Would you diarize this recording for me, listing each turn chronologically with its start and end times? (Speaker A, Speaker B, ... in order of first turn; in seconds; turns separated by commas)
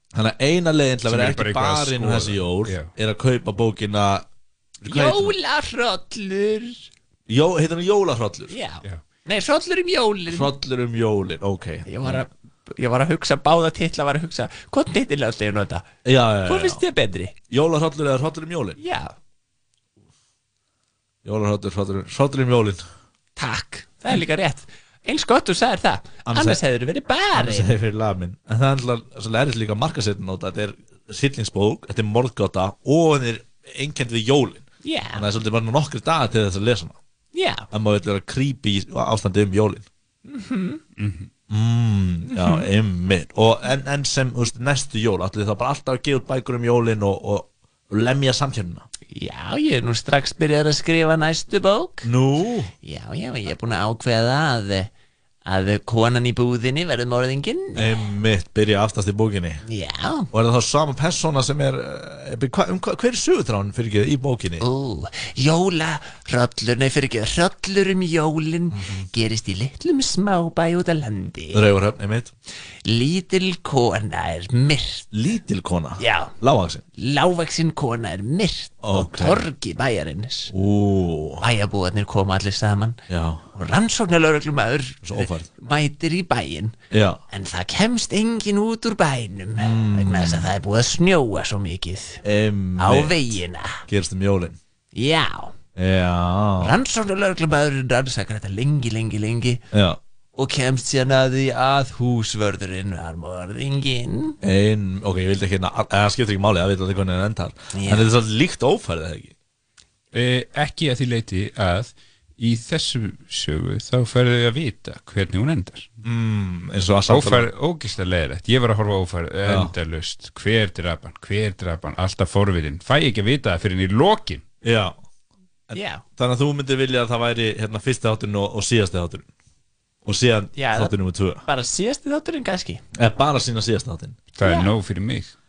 Speaker A: 0.1-4.2, Speaker B: 1.0-2.9, Speaker C: 4.8-6.9, Speaker A: 4.8-5.3, Speaker A: 7.3-8.5, Speaker C: 8.5-10.5, Speaker A: 10.3-12.2, Speaker C: 11.9-15.8, Speaker A: 16.0-16.8, Speaker C: 16.4-17.4, Speaker A: 17.5-18.8, Speaker C: 18.8-19.1, Speaker A: 21.2-22.8, Speaker C: 23.4-27.7, Speaker A: 26.2-26.6, Speaker A: 27.3-37.0, Speaker C: 34.8-35.2, Speaker C: 37.3-37.7, Speaker A: 37.7-39.9, Speaker C: 40.2-40.8, Speaker B: 41.0-41.3, Speaker A: 41.5-48.9, Speaker C: 42.3-42.6, Speaker C: 49.1-52.1, Speaker A: 52.0-52.7, Speaker C: 52.8-54.9, Speaker C: 55.5-57.9, Speaker A: 57.8-59.6, Speaker C: 59.7-60.3, Speaker A: 60.3-64.6, Speaker C: 64.6-71.6, Speaker A: 71.5-72.3, Speaker C: 72.8-75.0, Speaker A: 75.1-76.8, Speaker C: 76.0-76.3, Speaker C: 77.0-80.5, Speaker A: 78.8-79.5, Speaker A: 80.5-81.4, Speaker C: 81.4-83.0, Speaker A: 83.1-83.5, Speaker C: 83.5-86.7, Speaker A: 85.0-85.5, Speaker A: 86.9-87.2, Speaker C: 87.3-92.2, Speaker A: 89.6-90.5, Speaker A: 92.2-93.2, Speaker C: 92.8-93.8, Speaker A: 93.9-94.6, Speaker C: 94.9-95.5, Speaker A: 95.8-96.7, Speaker C: 96.6-99.6, Speaker A: 99.7-100.0, Speaker C: 100.3-104.3, Speaker A: 104.4-109.3, Speaker C: 107.7-108.1, Speaker B: 110.1-115.9, Speaker A: 116.0-117.5, Speaker B: 117.1-124.4, Speaker A: 119.4-119.7, Speaker A: 124.6-124.9, Speaker A: 125.7-129.3, Speaker C: 125.7-126.0, Speaker A: 130.0-131.4, Speaker C: 130.5-130.9, Speaker C: 131.4-132.8, Speaker A: 132.9-134.2, Speaker B: 134.3-135.3, Speaker C: 134.4-134.7